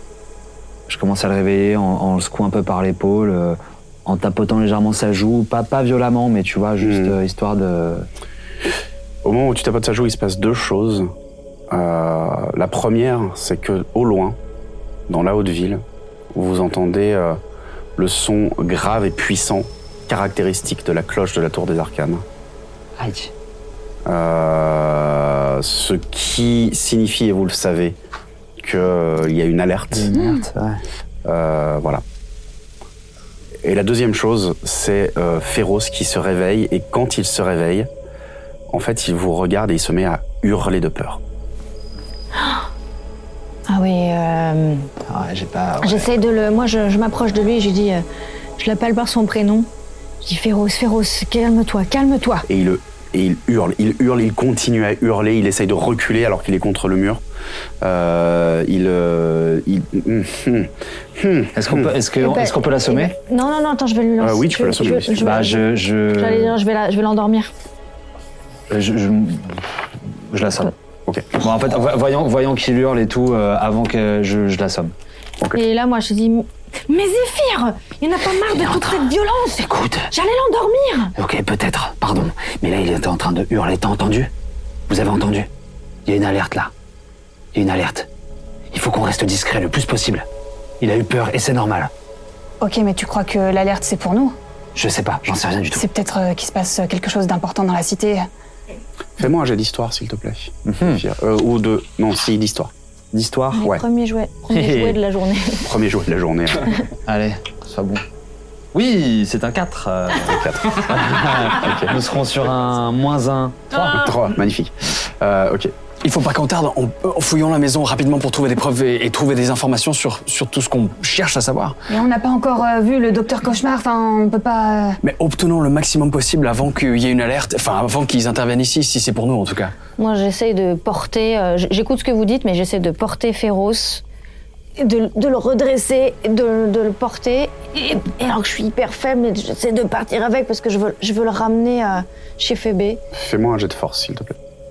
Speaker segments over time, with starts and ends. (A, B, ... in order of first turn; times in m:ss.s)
0:00.9-0:08.1 A
0:06.8-0:07.1 B
0:09.2-0:11.1 B
0:11.7-0:14.4 B
0:15.1-0:15.8 B
0:16.3-0:17.4 B
0:18.0-0:22.2 B
0:23.0-0:23.3 A
0:24.1-0:28.0 B
0:28.6-0:30.1 B
0:29.9-0:30.8 A
0:31.2-0:32.0 B
0:33.6-0:37.9 B
0:38.7-0:41.2 B
0:42.4-0:42.7 C
0:43.7-0:44.9 C
0:45.1-0:46.1 A
0:45.8-0:48.0 C
0:48.6-0:49.7 C
0:50.2-0:52.5 C
0:52.5-0:57.2 B
0:57.8-1:02.0 B
1:01.5-1:03.2 A
1:02.2-1:07.5 C
1:04.2-1:05.4 B
1:05.2-1:06.6 A
1:08.7-1:10.7 A
1:11.4-1:14.9 A
1:15.5-1:21.1 C
1:18.6-1:18.9 A
1:19.7-1:20.1 A
1:21.2-1:24.3 A
1:24.9-1:25.5 A
1:26.0-1:26.7 A
1:27.5-1:28.1 A
1:28.7-1:30.3 A
1:30.8-1:31.9 A
1:32.6-1:34.4 D
1:34.8-1:35.9 A
1:35.7-1:38.3 D
1:39.2-1:42.7 B
1:40.7-1:41.0 A
1:43.1-1:43.7 A
1:43.6-1:45.8 C
1:44.5-1:45.0 A
1:45.6-1:46.8 B
1:47.1-1:48.0 A
1:48.7-1:54.0 A
1:50.2-1:52.0 B
1:53.8-1:55.7 B
1:56.0-2:01.8 E
2:01.9-2:05.0 D
2:05.0-2:09.7 E
2:10.0-2:14.0 C
2:14.8-2:23.0 C
2:23.1-2:24.4 B